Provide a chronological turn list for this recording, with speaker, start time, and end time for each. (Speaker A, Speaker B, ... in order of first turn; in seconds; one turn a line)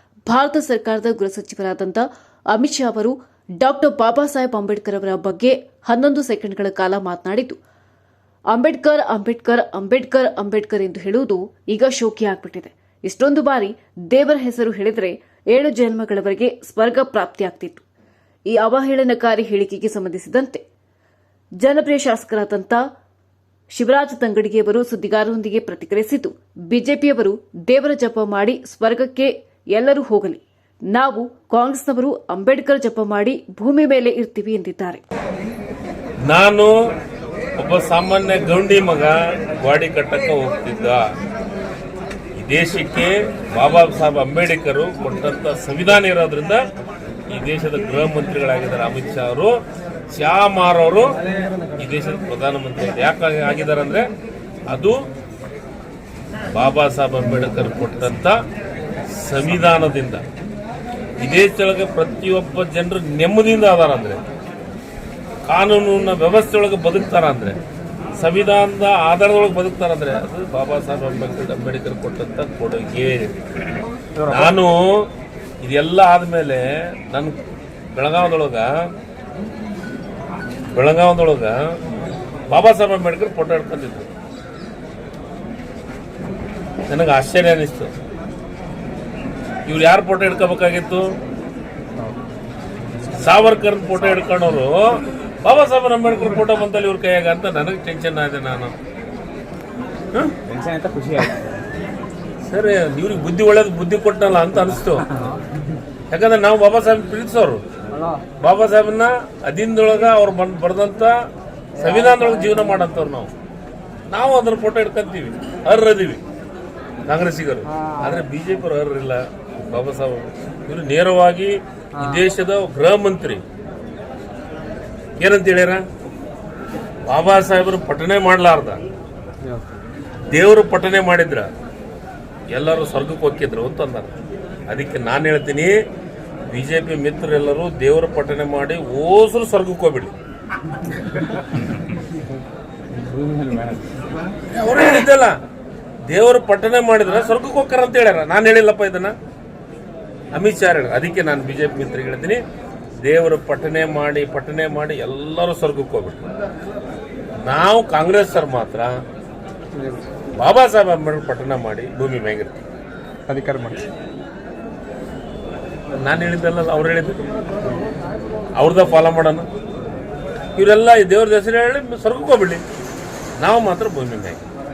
Speaker A: 0.3-7.6
Speaker A: 8.5-17.9
Speaker A: 18.5-20.6
Speaker A: 21.6-22.8
Speaker A: 23.7-35.0
Speaker B: 36.3-36.7
Speaker B: 37.6-41.0
Speaker B: 42.4-46.6
Speaker B: 47.3-49.5
Speaker B: 50.1-51.1
Speaker B: 51.8-54.1
Speaker B: 54.7-55.0
Speaker B: 56.5-58.4
Speaker B: 59.2-60.2
Speaker B: 61.2-64.2
Speaker B: 65.5-67.6
Speaker B: 68.2-73.3
Speaker C: 74.2-74.6
Speaker B: 74.3-75.1
Speaker B: 75.6-77.4
Speaker B: 78.0-78.7
Speaker B: 80.7-81.5
Speaker B: 82.5-84.1
Speaker B: 86.9-87.9
Speaker B: 89.7-91.2
Speaker B: 93.1-98.8
Speaker C: 100.4-101.7
Speaker B: 102.5-105.0
Speaker B: 106.1-107.6
Speaker C: 107.9-108.2
Speaker B: 108.4-111.2
Speaker B: 111.8-113.3
Speaker B: 114.1-116.2
Speaker B: 117.1-123.4
Speaker B: 125.2-125.8
Speaker B: 127.1-128.8
Speaker B: 130.3-131.5
Speaker B: 132.5-134.1
Speaker B: 134.7-135.7
Speaker B: 136.5-140.1
Speaker C: 142.9-144.1
Speaker B: 144.5-145.4
Speaker B: 146.1-149.1
Speaker B: 150.3-152.4
Speaker B: 153.0-156.2
Speaker B: 157.4-158.9
Speaker C: 159.7-160.0
Speaker B: 160.4-162.6
Speaker C: 163.3-163.8
Speaker B: 166.0-167.2
Speaker B: 168.6-169.5
Speaker B: 170.6-172.6
Speaker B: 173.4-174.4